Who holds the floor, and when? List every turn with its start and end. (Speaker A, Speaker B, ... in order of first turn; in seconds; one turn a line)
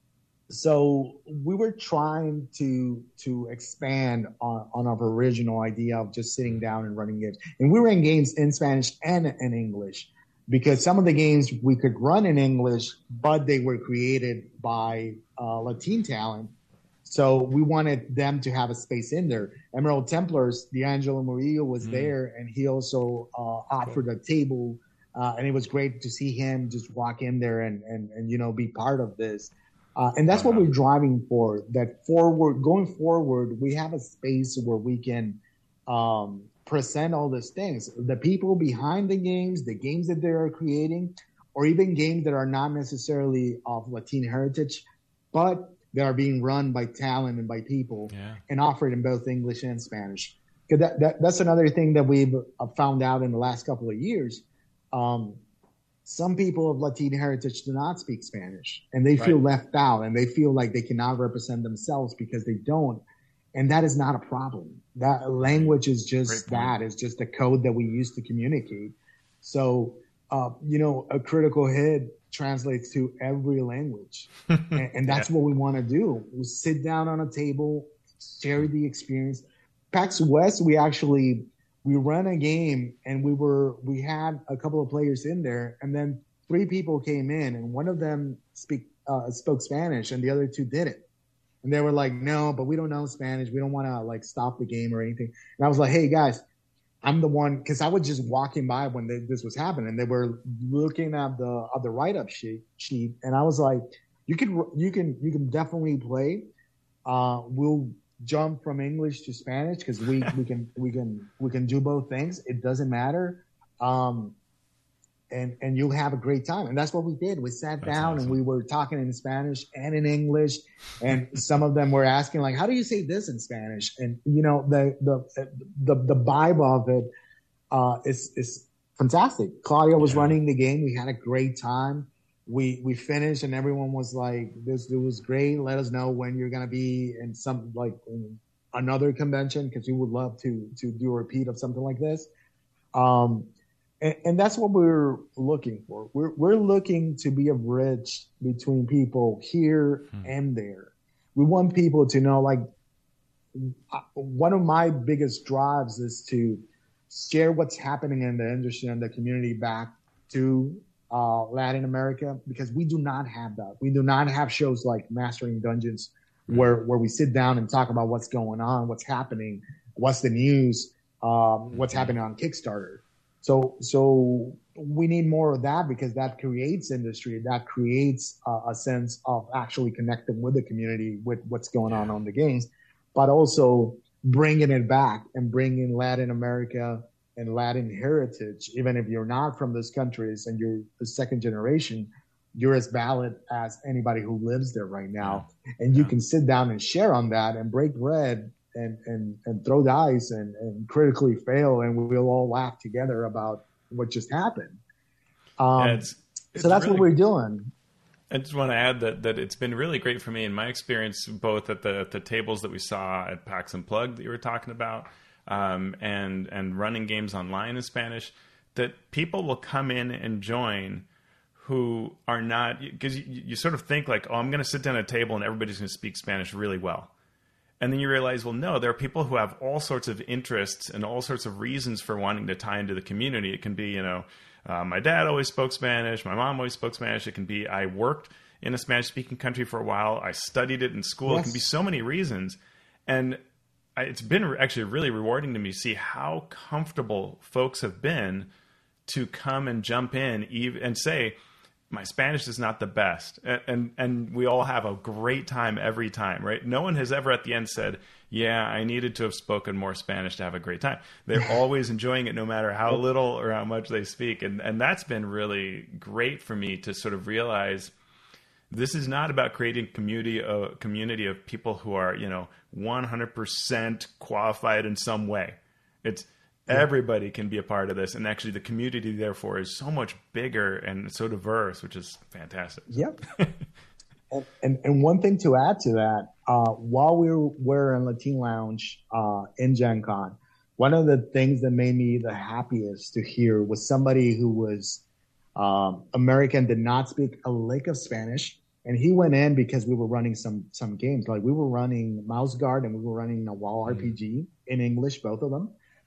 Speaker A: 0.5-16.5
Speaker A: 17.0-55.4
Speaker B: 21.8-22.1
Speaker B: 30.3-30.7
Speaker B: 48.1-48.4
Speaker A: 56.0-63.0
Speaker A: 63.5-91.0
Speaker B: 65.4-66.7
Speaker A: 91.6-96.4
Speaker A: 97.0-106.5
Speaker A: 107.0-114.3
Speaker A: 115.3-127.1
Speaker B: 117.8-118.3
Speaker A: 127.7-142.3
Speaker B: 130.0-130.4
Speaker A: 142.9-143.5
Speaker A: 144.0-152.6
Speaker A: 153.5-204.8
Speaker B: 171.7-172.1
Speaker B: 181.9-182.2
Speaker B: 195.2-196.1
Speaker A: 205.6-207.7
Speaker B: 205.8-207.1
Speaker B: 208.3-227.1
Speaker B: 227.8-243.4
Speaker A: 241.3-241.6
Speaker B: 244.0-248.5
Speaker B: 249.1-251.3
Speaker B: 251.9-267.9
Speaker B: 268.7-283.5
Speaker A: 282.9-283.2
Speaker A: 284.3-295.0
Speaker A: 295.6-305.7
Speaker B: 303.9-304.1